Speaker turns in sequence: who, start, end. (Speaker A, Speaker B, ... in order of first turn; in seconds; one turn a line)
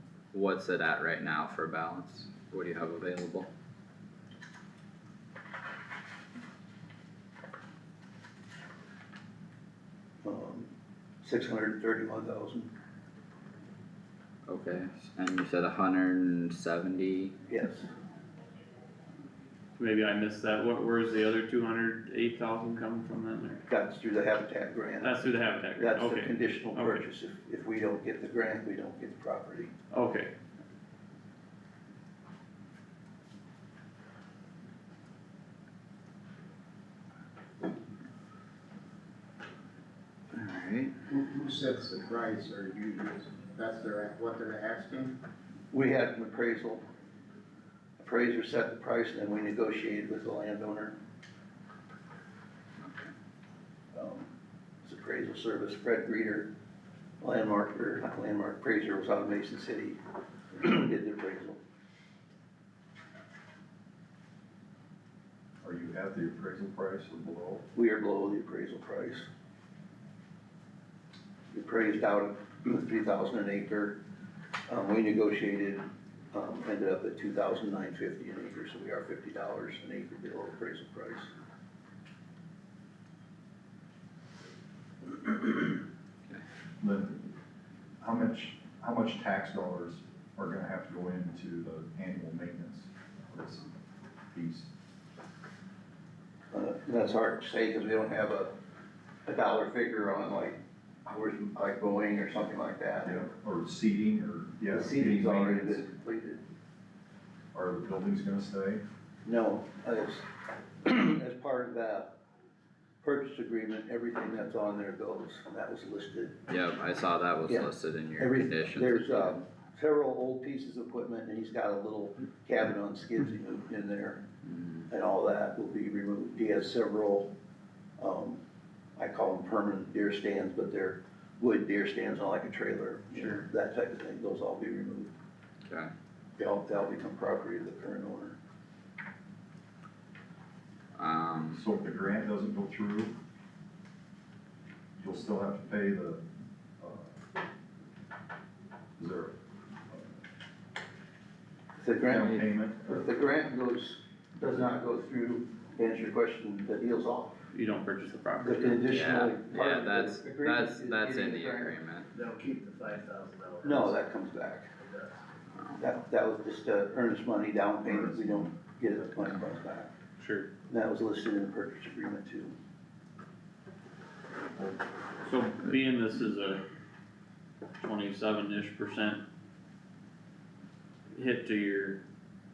Speaker A: 0.3-3.5
Speaker B: 10.2-10.7
Speaker B: 11.2-12.7
Speaker A: 14.5-17.3
Speaker B: 17.5-17.9
Speaker C: 19.8-23.6
Speaker B: 23.7-25.2
Speaker C: 25.0-27.0
Speaker B: 25.8-29.7
Speaker C: 29.9-30.3
Speaker A: 40.3-40.9
Speaker D: 41.1-45.2
Speaker B: 45.7-46.8
Speaker B: 48.0-51.0
Speaker B: 53.9-54.3
Speaker B: 54.8-56.5
Speaker B: 57.2-60.0
Speaker B: 60.5-61.6
Speaker E: 65.6-67.7
Speaker B: 67.7-69.3
Speaker B: 71.5-74.0
Speaker B: 74.7-81.3
Speaker E: 86.8-87.3
Speaker E: 88.0-93.8
Speaker E: 94.3-94.7
Speaker B: 96.5-98.5
Speaker B: 99.2-103.2
Speaker E: 103.0-105.8
Speaker B: 104.7-106.4
Speaker E: 107.5-108.8
Speaker B: 109.2-110.3
Speaker B: 110.8-112.1
Speaker B: 113.0-116.4
Speaker A: 116.5-119.4
Speaker B: 117.5-124.2
Speaker A: 124.5-124.8
Speaker B: 124.9-127.3
Speaker B: 128.0-128.4
Speaker B: 129.0-135.1
Speaker A: 135.7-135.9
Speaker B: 136.4-138.3
Speaker A: 140.9-141.6
Speaker E: 141.5-143.1
Speaker E: 145.0-146.2
Speaker E: 146.8-147.2
Speaker E: 149.0-149.4
Speaker B: 151.8-157.3
Speaker E: 152.1-153.1
Speaker C: 157.5-158.8
Speaker B: 158.4-161.8
Speaker A: 158.8-162.1
Speaker F: 162.1-164.0
Speaker B: 163.6-164.7
Speaker F: 164.8-165.1
Speaker B: 165.8-169.9
Speaker E: 167.9-168.4
Speaker C: 170.2-170.5
Speaker B: 170.7-172.5
Speaker C: 175.2-176.6
Speaker C: 177.8-179.2
Speaker C: 181.1-182.0